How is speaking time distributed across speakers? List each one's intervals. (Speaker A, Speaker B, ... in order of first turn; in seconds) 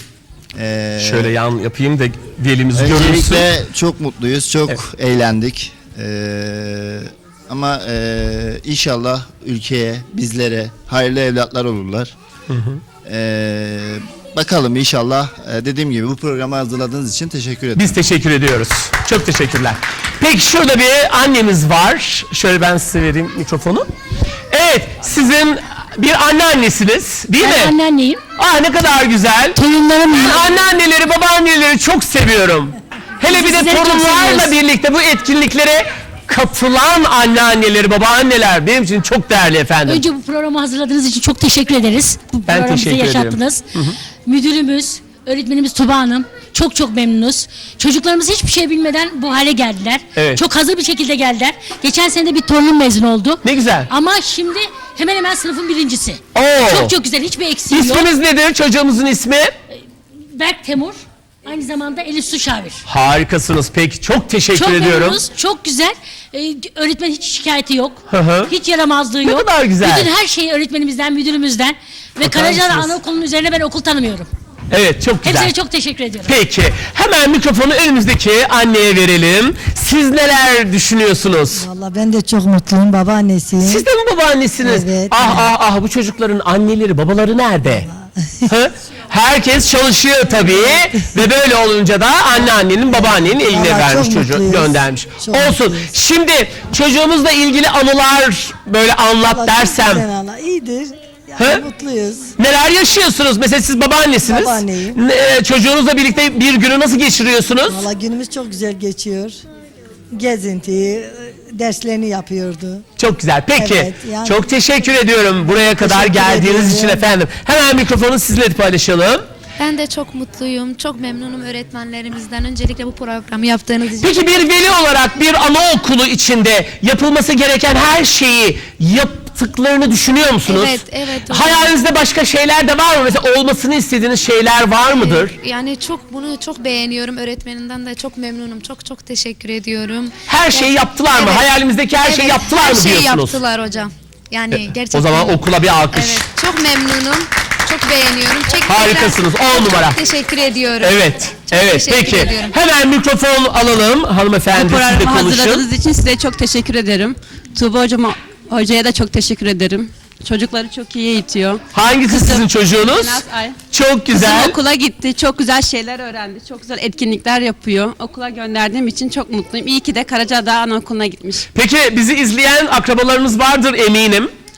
Speaker A: 0.5-1.3, 2.8-12.2, 13.0-18.0
Speaker B: 1.0-3.5, 12.5-12.8, 17.8-23.9, 24.5-27.8, 28.4-40.0, 42.5-44.0, 50.2-50.4, 53.4-53.9, 56.4-57.0, 57.7-59.5, 62.9-65.2, 68.1-68.5, 69.2-70.1, 72.2-73.0, 74.7-75.5, 76.2-81.7, 83.6-87.9, 88.5-100.0, 101.4-101.7, 102.4-107.9, 113.0-119.2, 124.0-130.8, 131.3-135.4, 140.3-143.4, 144.9-146.2, 148.7-150.0, 150.8-155.6, 161.7-164.6, 171.5-174.3
Speaker C: 27.4-28.2, 29.6-30.5, 33.3-34.5, 39.9-43.6, 44.3-58.1, 60.4-60.9, 61.5-62.8, 64.5-74.3, 75.2-76.3
Speaker D: 81.6-83.9, 84.6-85.5, 87.7-88.3, 90.5-91.0, 92.9-95.9, 99.3-102.3, 104.2-105.0, 107.7-109.4, 110.1-112.8, 113.6-114.4, 115.5-117.1
Speaker E: 119.6-124.5, 130.5-131.7, 135.0-152.6
Speaker F: 154.5-163.6, 164.1-171.5